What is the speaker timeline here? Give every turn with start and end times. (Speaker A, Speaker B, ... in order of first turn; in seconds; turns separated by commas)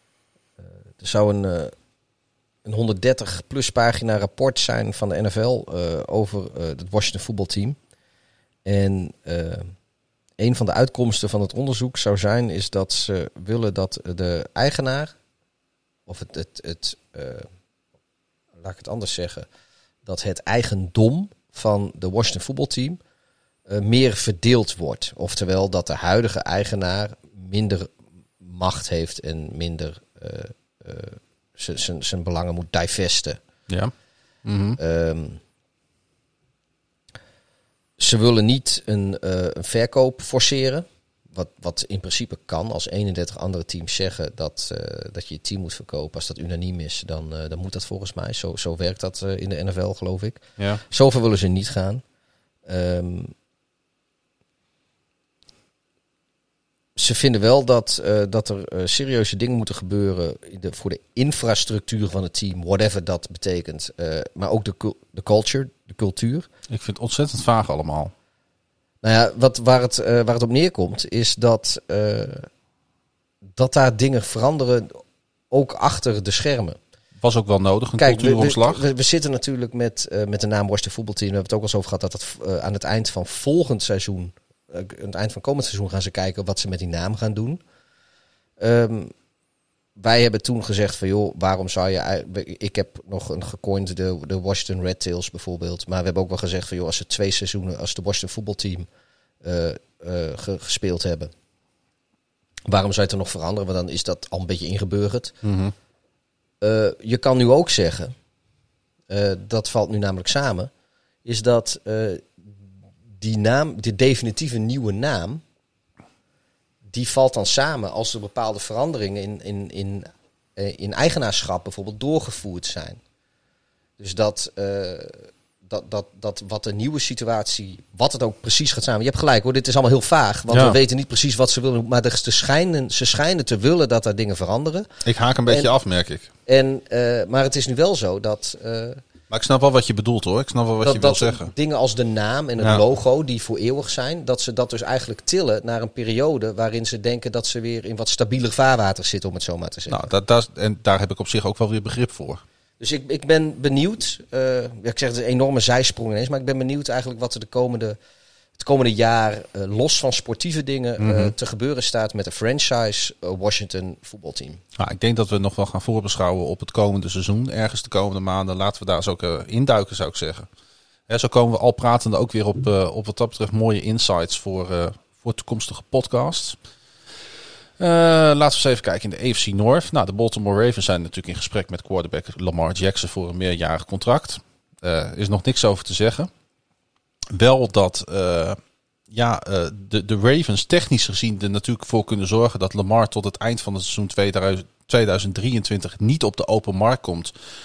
Speaker A: 0.6-1.7, Speaker A: 2.6-7.8, Speaker A: 8.6-9.7, Speaker A: 10.4-15.1, Speaker A: 16.1-17.5, Speaker A: 18.6-19.5, Speaker A: 20.1-23.0, Speaker A: 23.7-33.4, Speaker B: 33.7-33.9, Speaker B: 34.4-34.8, Speaker A: 34.8-35.4, Speaker A: 38.0-52.0, Speaker A: 52.6-53.3, Speaker A: 57.0-66.5, Speaker B: 66.7-68.1, Speaker A: 69.0-72.5, Speaker A: 73.5-76.8, Speaker B: 77.2-78.8, Speaker A: 78.0-87.6, Speaker A: 88.6-89.1, Speaker A: 90.0-98.9, Speaker A: 99.4-101.3, Speaker A: 102.7-105.3, Speaker B: 105.4-105.7, Speaker A: 106.6-108.1, Speaker A: 109.1-110.7, Speaker A: 111.2-112.5, Speaker A: 113.2-115.4, Speaker A: 116.9-123.0, Speaker A: 124.0-134.9, Speaker B: 130.5-130.8, Speaker B: 135.0-136.3, Speaker A: 135.4-135.7, Speaker A: 136.4-139.0, Speaker B: 139.3-141.5, Speaker A: 140.8-150.1, Speaker B: 142.6-142.8, Speaker B: 149.9-152.4, Speaker A: 152.8-158.0, Speaker A: 158.6-164.6, Speaker B: 161.0-161.3, Speaker B: 164.8-170.5, Speaker B: 171.1-176.6, Speaker B: 177.8-186.3, Speaker B: 187.3-188.6, Speaker B: 189.1-197.3